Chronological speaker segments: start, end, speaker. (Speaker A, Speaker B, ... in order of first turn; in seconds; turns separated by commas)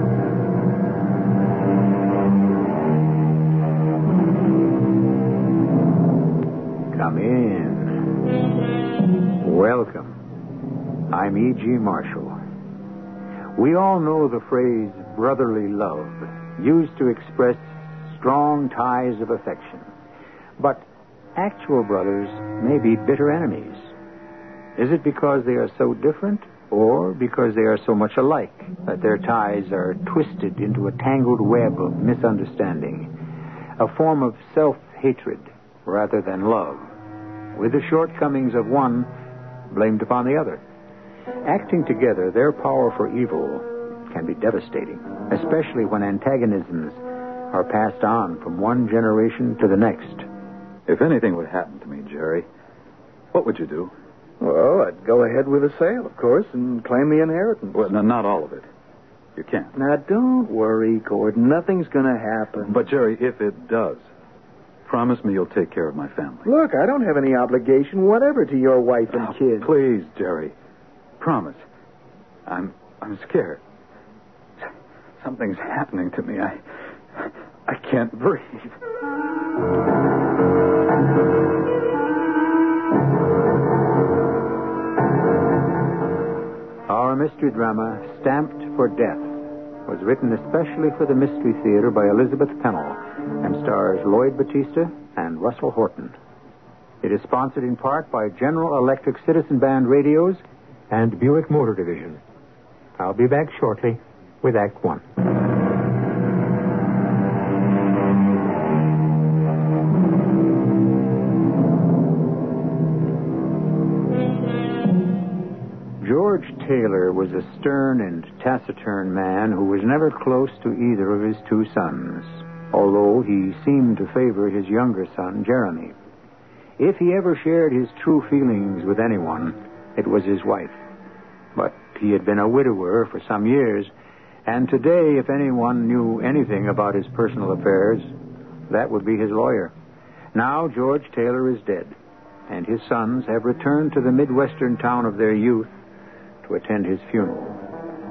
Speaker A: 6.9-8.0, Speaker A: 9.4-10.2, Speaker A: 11.1-12.4, Speaker A: 13.6-19.9, Speaker A: 20.6-20.8, Speaker A: 21.4-23.9, Speaker A: 24.8-33.1, Speaker A: 33.8-36.9, Speaker A: 37.5-39.1, Speaker A: 39.7-40.6, Speaker A: 41.5-50.3, Speaker B: 50.9-52.5, Speaker B: 53.3-53.9, Speaker C: 54.4-57.9, Speaker B: 57.7-58.7, Speaker B: 59.4-59.7, Speaker C: 59.8-62.8, Speaker B: 62.6-64.0, Speaker B: 64.9-66.5, Speaker C: 66.5-69.7, Speaker B: 69.1-70.5, Speaker B: 71.2-71.6, Speaker B: 72.5-73.6, Speaker B: 75.2-76.6, Speaker B: 77.2-78.8, Speaker A: 86.9-89.3, Speaker A: 89.9-96.2, Speaker A: 97.0-102.2, Speaker A: 103.0-105.0, Speaker A: 116.0-126.0, Speaker A: 126.8-130.8, Speaker A: 131.6-133.9, Speaker A: 134.5-138.1, Speaker A: 138.7-139.7, Speaker A: 140.3-141.9, Speaker A: 142.5-145.7, Speaker A: 146.4-147.6